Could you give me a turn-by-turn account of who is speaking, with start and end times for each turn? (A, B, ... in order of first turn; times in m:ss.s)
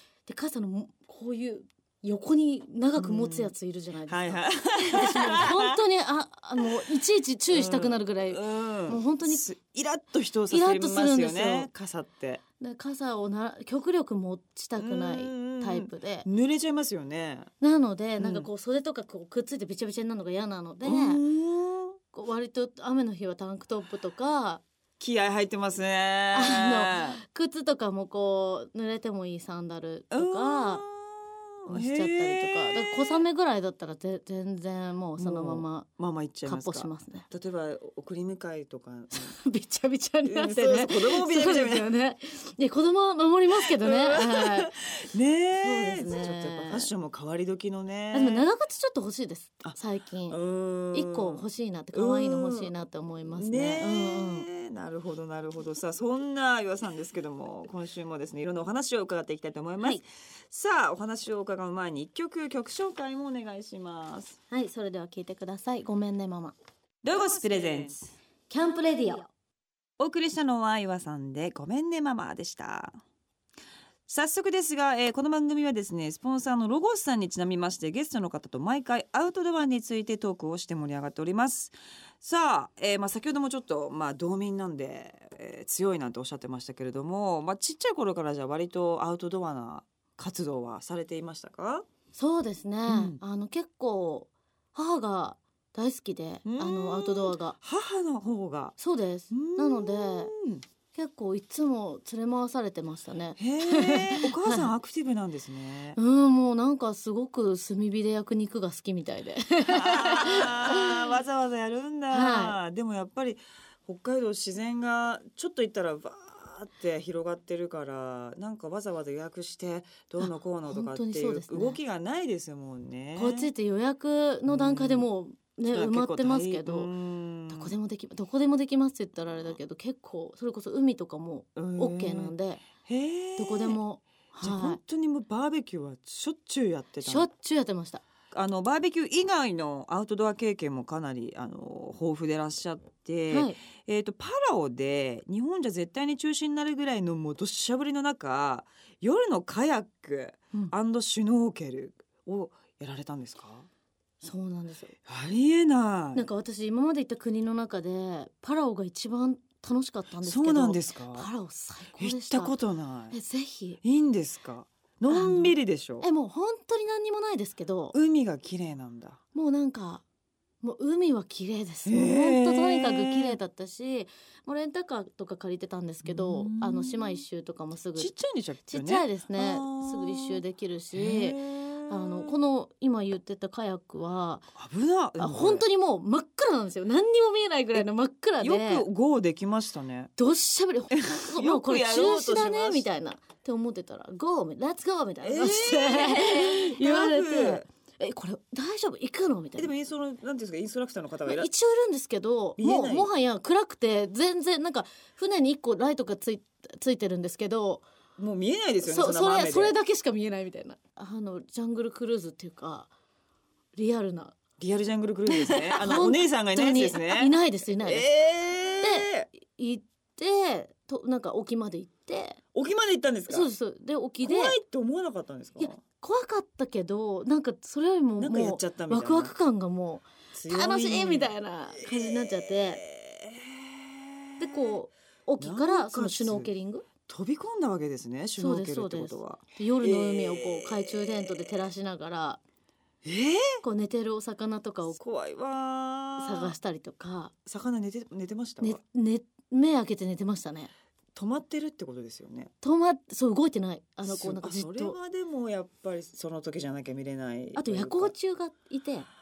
0:00.3-0:09.4 A
0:03.0-0:03.5 B
0:04.1-0:05.8 B
0:07.5-0:12.4 B
0:10.5-0:11.7 A
0:12.6-0:16.3 A
0:14.8-0:17.5 B
0:17.6-0:21.2 A
0:18.2-0:18.5 B
0:20.8-0:22.0 B
0:22.1-0:24.6 A
0:25.0-0:27.2 B
0:26.3-0:30.8 A
0:30.1-0:33.2 B
0:31.7-0:35.9 A
0:35.2-0:39.4 B
0:36.4-0:37.2 A
0:39.1-0:44.7 A
0:40.2-0:41.9 B
0:43.7-0:48.5 B
0:45.6-0:46.9 A
0:48.1-0:50.4 A
0:50.3-0:52.7 B
0:50.9-0:54.5 A
0:53.3-1:04.4 B
1:04.5-1:06.5 A
1:07.0-1:08.2 B
1:08.5-1:09.3 A
1:10.0-1:13.0 B
1:14.1-1:31.8 B
1:32.2-1:37.6 A
1:32.9-1:33.2 B
1:36.4-1:38.7 B
1:38.8-1:40.3 A
1:39.3-1:40.6 B
1:40.9-1:44.7 A
1:43.4-1:46.0 B
1:46.0-1:51.1 A
1:49.6-2:03.5 B
1:52.1-1:52.6 A
2:00.2-2:01.8 A
2:03.2-2:06.9 A
2:04.5-2:05.1 B
2:05.7-2:07.7 B
2:07.5-2:12.7 A
2:11.5-2:13.8 B
2:13.4-2:14.8 A
2:14.4-2:17.3 B
2:17.0-2:18.0 A
2:18.3-2:33.7 B
2:23.3-2:23.6 A
2:34.2-2:34.9 A
2:35.0-2:36.2 B
2:36.2-2:42.6 A
2:40.2-2:41.3 B
2:42.0-2:43.2 B
2:43.1-2:43.8 A
2:43.8-2:46.1 B
2:45.1-2:48.0 A
2:47.9-2:49.2 B
2:49.3-2:50.0 A
2:50.6-2:58.1 A
2:51.8-2:53.4 B
2:56.0-2:57.2 B
2:58.0-3:00.4 B
2:58.7-3:04.4 A
3:00.9-3:02.4 B
3:04.6-3:05.6 B
3:05.2-3:08.8 A
3:08.4-3:10.1 B
3:10.2-3:19.7 A
3:10.9-3:12.9 B
3:15.2-3:17.6 B
3:19.6-3:21.5 B
3:21.2-3:27.8 A
3:22.6-3:23.1 B
3:28.2-3:29.7 B
3:28.8-3:32.9 A
3:33.8-3:34.3 A
3:34.6-3:39.3 B
3:35.3-3:38.1 A
3:38.8-3:42.4 A
3:42.5-3:43.5 B
3:43.3-3:44.6 A
3:44.2-3:45.8 B
3:45.6-3:52.8 A
3:48.2-3:49.3 B
3:50.3-3:51.3 B
3:51.8-3:54.8 B
3:54.4-3:56.8 A
3:55.4-3:56.5 B
3:57.1-4:01.5 B
3:58.4-4:02.4 A
4:03.0-4:03.6 B
4:03.6-4:05.0 A
4:05.0-4:06.5 B
4:06.2-4:07.3 A
4:07.4-4:08.8 B
4:08.6-4:10.7 A
4:11.1-4:12.5 B
4:12.6-4:15.0 A
4:14.0-4:18.1 B
4:17.6-4:19.1 A